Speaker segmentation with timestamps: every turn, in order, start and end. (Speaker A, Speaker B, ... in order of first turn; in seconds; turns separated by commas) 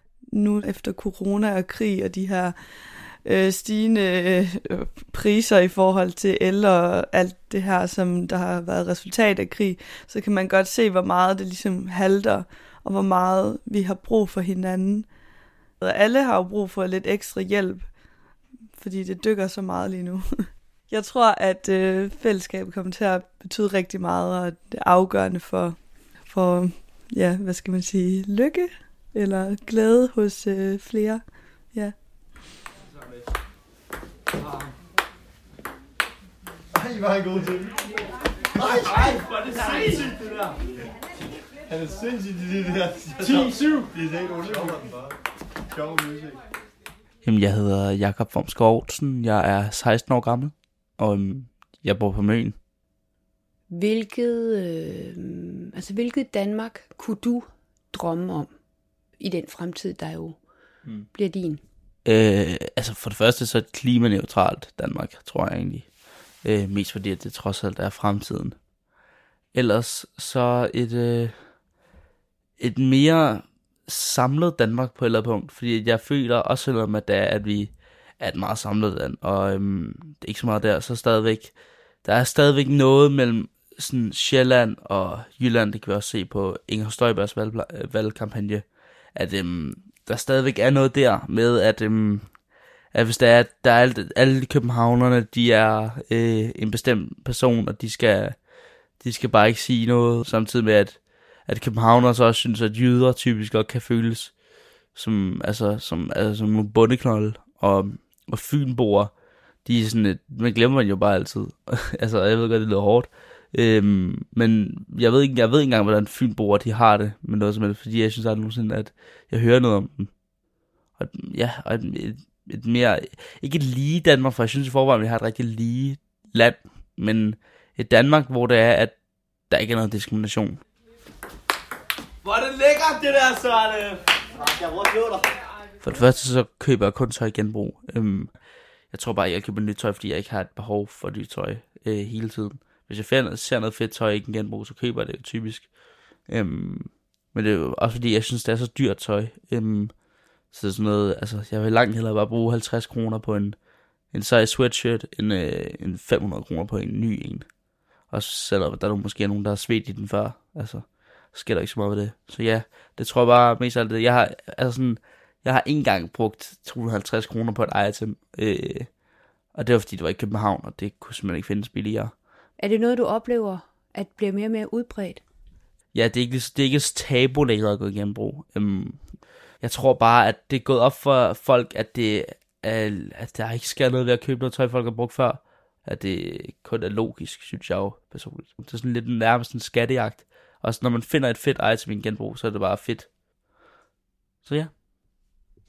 Speaker A: 0.3-15.2, Speaker A: 15.8-18.0, Speaker A: 18.7-31.9, Speaker B: 36.8-37.6, Speaker B: 38.6-40.1, Speaker C: 38.8-40.0, Speaker B: 41.7-45.1, Speaker C: 43.2-43.6, Speaker B: 45.7-46.3, Speaker D: 47.2-52.6, Speaker E: 53.7-58.5, Speaker E: 59.2-60.4, Speaker E: 61.1-61.6, Speaker D: 62.0-68.9, Speaker D: 69.5-71.8, Speaker D: 72.6-130.6, Speaker C: 132.3-133.9, Speaker C: 134.8-135.0, Speaker D: 135.8-172.2, Speaker E: 172.6-175.2, Speaker D: 175.9-193.2, Speaker D: 194.4-194.7